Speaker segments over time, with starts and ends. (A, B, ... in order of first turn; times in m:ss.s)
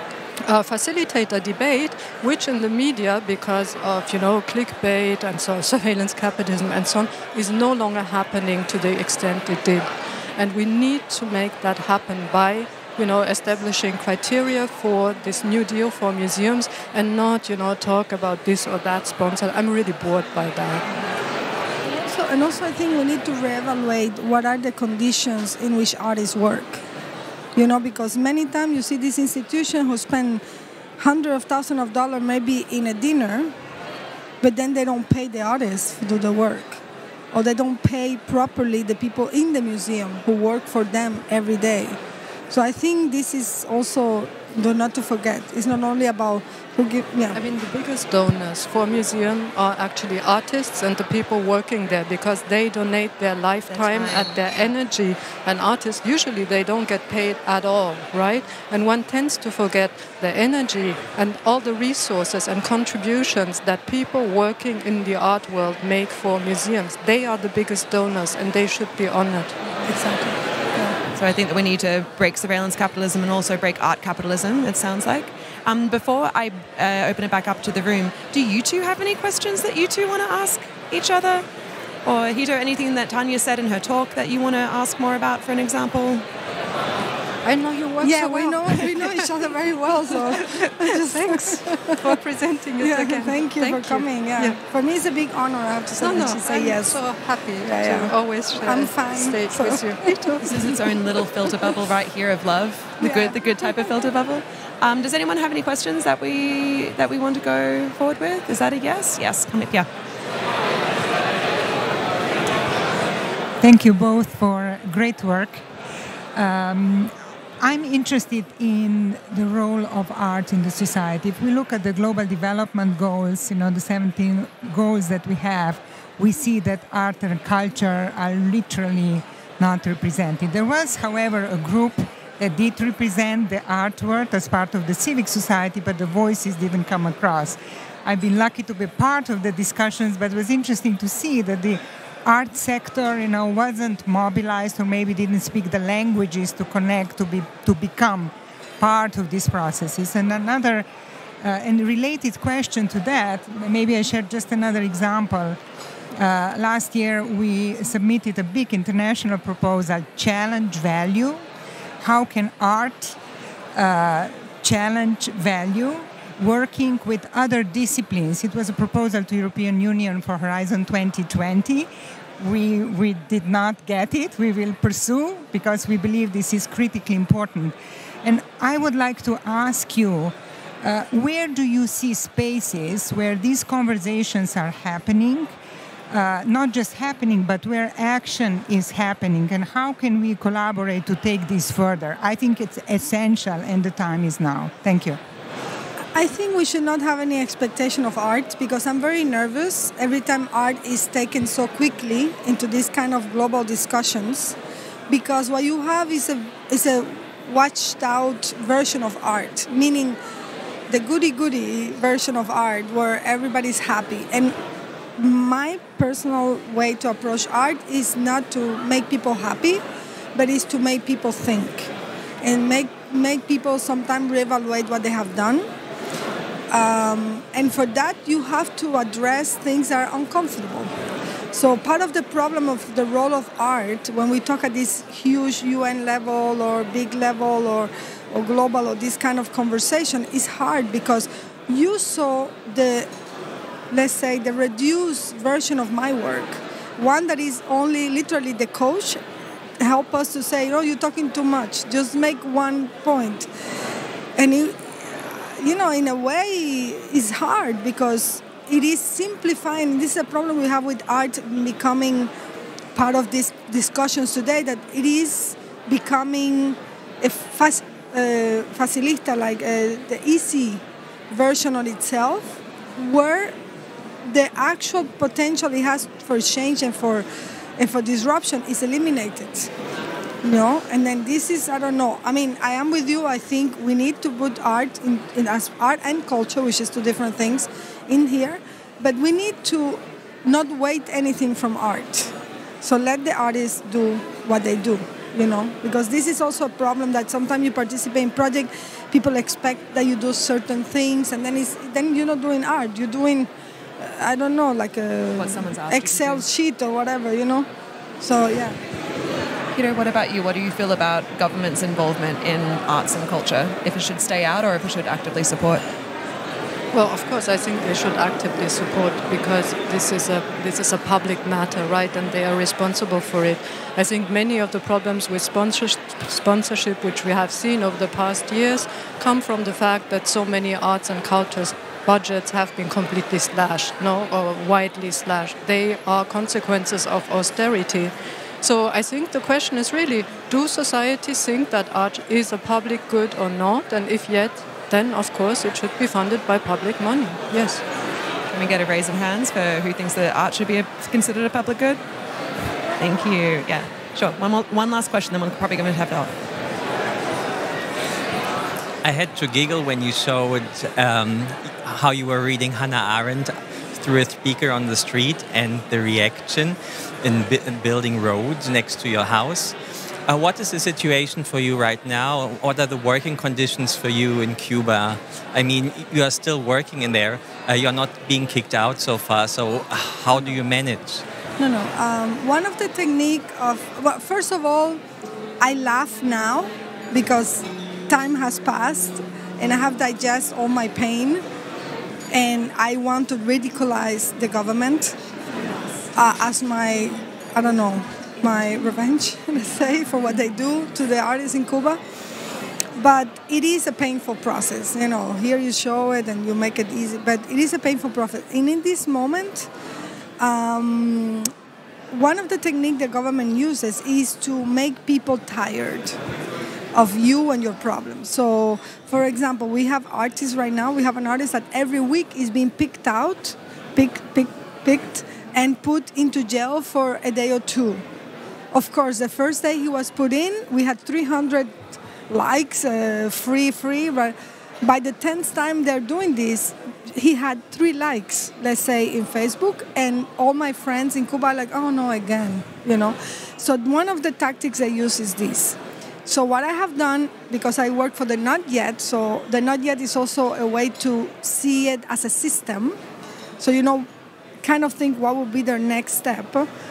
0:00.5-0:20.8 A
0:21.9-0:26.8 B
0:27.6-0:30.4 B
0:31.0-0:33.5 B
0:34.4-0:36.8 B
0:37.3-0:42.0 B
0:42.5-0:47.4 B
0:47.3-1:09.6 A
0:53.7-0:54.7 C
1:09.8-1:11.0 B
1:11.2-1:21.4 C
1:22.0-1:26.2 C
1:27.4-1:34.6 A
1:28.0-1:32.2 B
1:32.8-1:37.0 B
1:36.0-1:40.5 A
1:37.6-1:40.8 B
1:40.4-1:49.9 C
1:43.0-1:43.4 B
1:53.6-1:55.6 D
1:56.4-2:30.8 D
2:31.4-2:35.6 D
2:36.2-2:41.4 D
2:42.0-2:43.2 D
2:43.8-2:51.9 D
2:52.4-3:05.5 D
3:06.1-3:15.2 D
3:16.1-3:24.6 B
3:25.1-3:30.2 B
3:30.9-3:34.6 B
3:35.2-3:39.8 B
3:40.4-3:41.9 B
3:42.4-3:45.7 B
3:46.7-3:50.9 B
3:51.5-4:03.1 B
4:03.9-4:09.2 B
4:09.8-4:13.5 B
4:14.4-4:22.3 B
4:23.0-4:33.6 B
4:34.2-4:37.3 B
4:37.8-4:39.7 B
4:40.4-5:07.7 B
5:05.4-5:06.5 C
5:08.2-5:08.8 B
5:09.8-5:15.8 C
5:16.9-5:47.8 A
5:48.5-5:52.0 C
5:53.0-5:56.3 C
5:59.0-6:09.8 E
6:10.3-6:21.2 E
6:21.6-6:25.0 B
6:25.6-6:31.4 B
6:32.3-6:35.2 B
6:36.2-6:42.0 B
6:43.0-6:49.7 B
6:50.4-6:51.5 B
6:52.1-6:56.2 B
6:57.0-7:08.0 B
7:08.7-7:11.7 B
7:12.3-7:33.0 B
7:33.6-7:34.1 B
7:34.6-7:36.7 B